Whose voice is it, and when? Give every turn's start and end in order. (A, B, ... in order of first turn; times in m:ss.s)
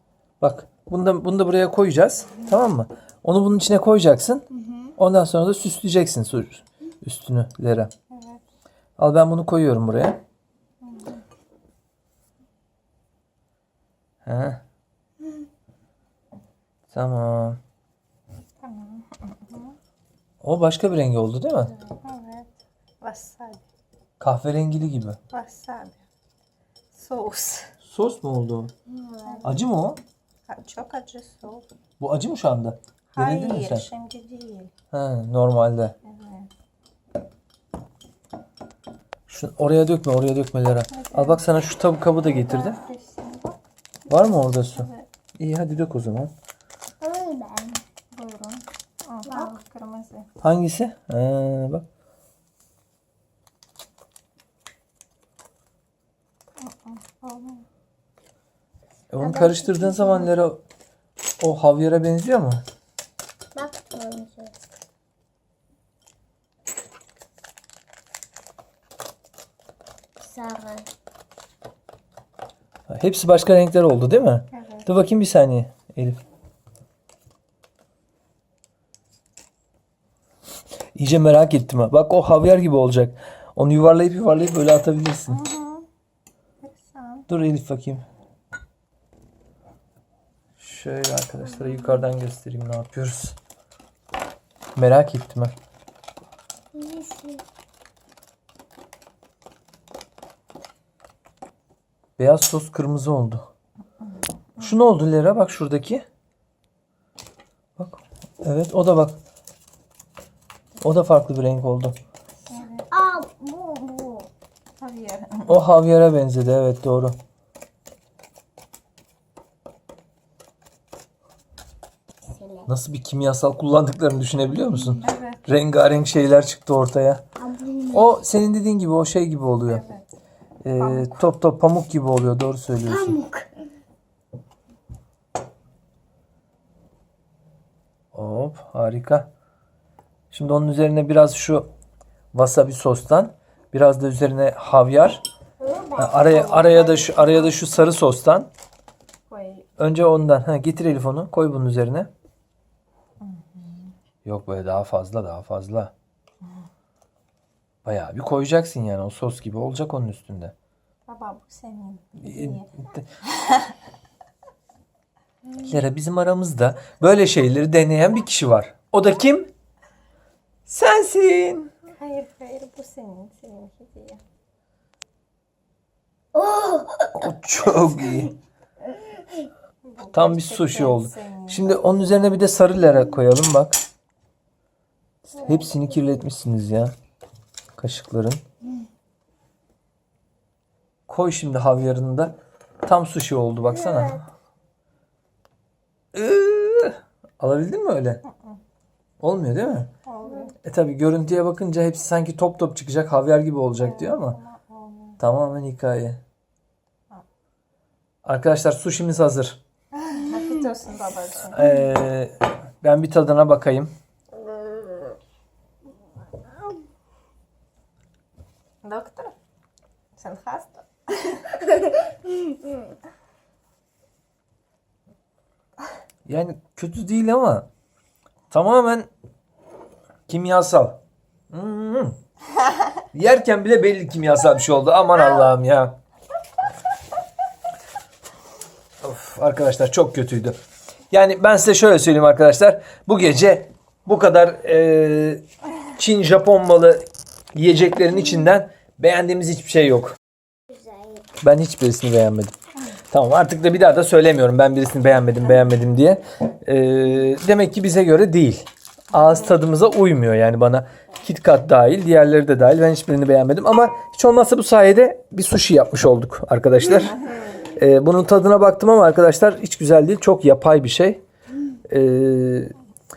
0:00.4-0:07.9 A
0:04.6-0:04.9 B
0:08.1-0:08.4 C
0:09.0-0:10.2 A
0:10.8-0:11.2 C
0:14.2-0:14.6 A
0:16.9-0:17.6 A
0:18.6-0:19.7 C
0:20.4-0:21.7 A
0:21.8-0:22.5 C
0:23.0-0:23.6 C
0:24.2-0:25.2 A
0:25.3-0:26.0 C
0:26.9-0:27.7 C
0:27.8-0:28.7 A
0:28.9-0:29.6 B
0:29.2-0:29.6 C
0:29.4-0:30.0 A
0:30.5-0:31.7 C
0:32.0-0:33.9 A
0:33.1-0:34.7 C
0:34.9-0:35.9 A
0:36.0-0:36.5 C
0:39.3-0:42.8 A
0:40.9-0:41.4 C
0:42.2-0:43.6 C
0:44.1-0:46.3 A
0:44.1-0:45.1 C
0:47.0-0:47.8 B
0:48.1-0:50.3 C
0:49.3-0:49.6 B
0:50.4-0:51.8 A
0:56.6-0:57.6 C
0:59.1-1:00.6 A
0:59.2-1:00.3 B
1:01.4-1:02.6 A
1:03.6-1:04.6 B
1:10.2-1:10.9 B
1:12.9-1:16.2 A
1:14.5-1:14.9 C
1:21.0-1:25.4 A
1:25.3-1:25.9 C
1:26.6-1:27.3 C
1:27.3-1:28.0 A
1:30.6-1:33.4 A
1:34.8-1:35.5 A
1:36.8-1:37.4 B
1:42.2-1:43.4 A
1:44.1-1:44.8 C
1:44.6-1:46.0 A
1:47.8-1:49.2 A
1:50.8-1:52.0 A
1:52.5-1:52.8 C
1:52.9-1:54.3 B
1:54.8-1:55.6 C
1:55.5-1:57.2 A
2:02.3-2:02.7 B
2:02.7-2:07.2 A
2:05.0-2:05.5 C
2:07.4-2:08.1 B
2:07.9-2:09.8 A
2:09.6-2:10.1 C
2:10.6-2:13.2 A
2:10.8-2:11.3 C
2:12.9-2:13.5 B
2:18.1-2:19.3 A
2:20.3-2:21.7 A
2:22.3-2:25.2 A
2:25.6-2:26.2 B
2:26.0-2:28.5 A
2:26.1-2:27.8 C
2:29.3-2:29.7 C
2:29.8-2:32.1 A
2:33.2-2:33.9 C
2:34.2-2:35.9 A
2:37.8-2:40.5 A
2:41.1-2:42.7 C
2:42.2-2:43.0 A
2:43.3-2:43.7 C
2:45.6-2:49.5 A
2:50.7-2:51.7 A
2:51.9-2:54.2 C
2:56.3-2:57.2 B
2:57.1-2:58.3 A
2:59.8-3:01.8 C
3:00.1-3:03.8 A
3:05.3-3:06.9 A
3:05.4-3:05.9 B
3:07.8-3:08.4 A
3:11.1-3:12.3 A
3:12.8-3:14.3 A
3:16.1-3:18.2 A
3:18.3-3:18.6 C
3:19.2-3:19.9 A
3:20.1-3:20.6 C
3:20.6-3:24.4 A
3:23.8-3:25.2 C
3:25.2-3:26.2 A
3:28.2-3:29.6 A
3:30.0-3:31.6 C
3:31.5-3:33.9 A
3:38.8-3:39.3 C
3:40.2-3:41.7 C
3:46.3-3:47.7 A
3:48.5-3:49.1 A
3:50.3-3:51.0 A
3:51.5-3:52.2 A
3:53.1-3:56.0 A
3:59.0-4:00.6 A
4:01.1-4:05.4 A
4:06.0-4:10.2 A
4:10.7-4:11.3 B
4:11.4-4:12.5 A
4:13.1-4:27.2 A
4:19.1-4:19.5 C
4:26.8-4:27.7 C
4:27.7-4:31.2 A
4:31.9-4:32.7 A